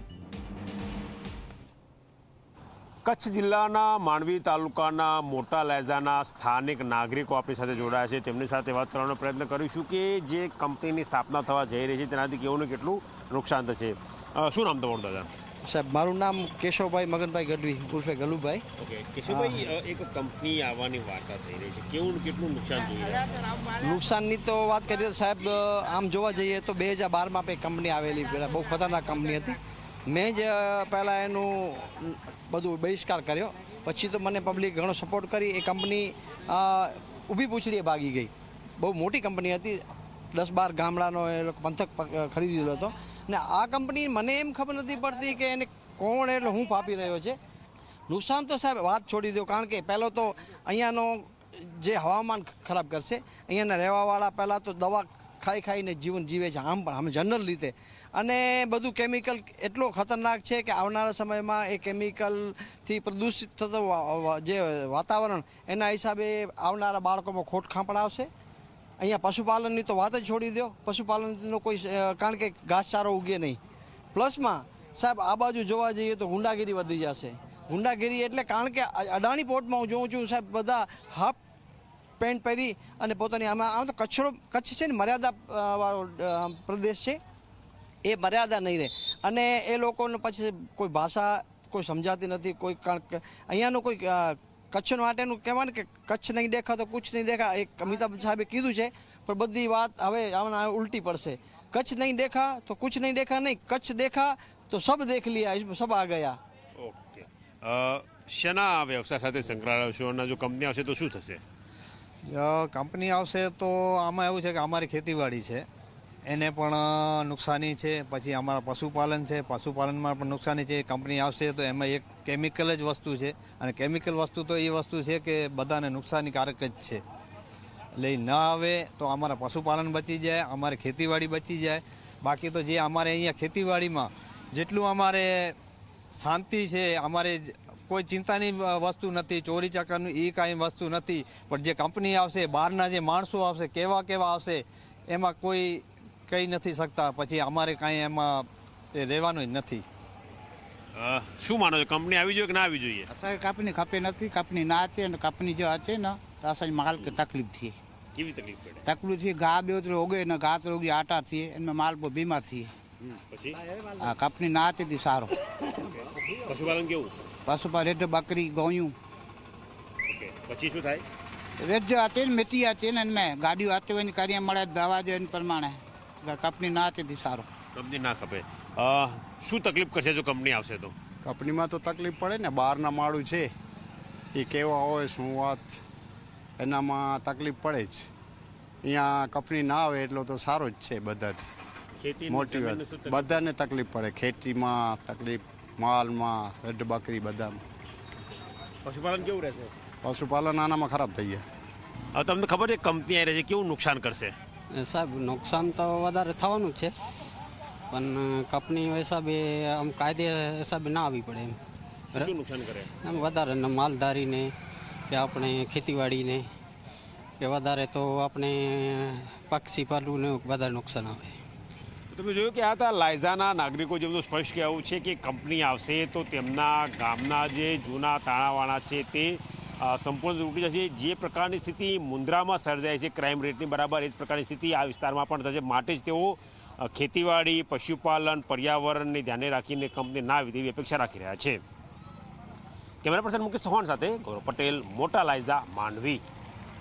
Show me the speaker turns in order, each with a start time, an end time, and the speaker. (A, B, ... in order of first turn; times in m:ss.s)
0:03.0-0:15.3 A
0:15.6-0:18.6 B
0:18.8-0:23.4 A
0:19.3-0:19.6 B
0:23.8-0:47.4 B
0:48.1-1:08.3 B
1:09.0-1:13.6 B
1:14.1-1:21.4 B
1:22.2-1:27.2 B
1:28.0-1:46.4 B
1:46.8-1:51.4 A
1:52.2-1:55.6 C
1:56.2-2:07.0 C
2:08.0-2:15.6 C
2:16.1-2:29.8 C
2:30.9-2:33.1 A
2:33.1-2:37.8 D
2:38.1-2:38.8 A
2:38.8-2:42.7 D
2:43.0-2:43.6 A
2:44.0-2:45.3 D
2:45.7-2:47.1 A
2:47.4-2:48.9 D
2:50.1-2:51.0 A
2:51.6-2:57.5 D
2:57.7-3:00.9 A
3:01.2-3:03.5 E
3:04.3-3:05.8 E
3:06.6-3:08.1 E
3:08.8-3:11.4 E
3:12.0-3:13.5 A
3:12.3-3:17.6 E
3:18.8-3:19.7 A
3:20.0-3:21.4 E
3:22.1-3:24.3 A
3:24.7-3:26.9 F
3:27.9-3:31.6 F
3:32.1-3:32.9 A
3:33.0-3:34.5 F
3:35.1-3:36.5 F
3:37.4-3:41.4 F
3:42.1-4:01.6 A
4:03.0-4:06.2 A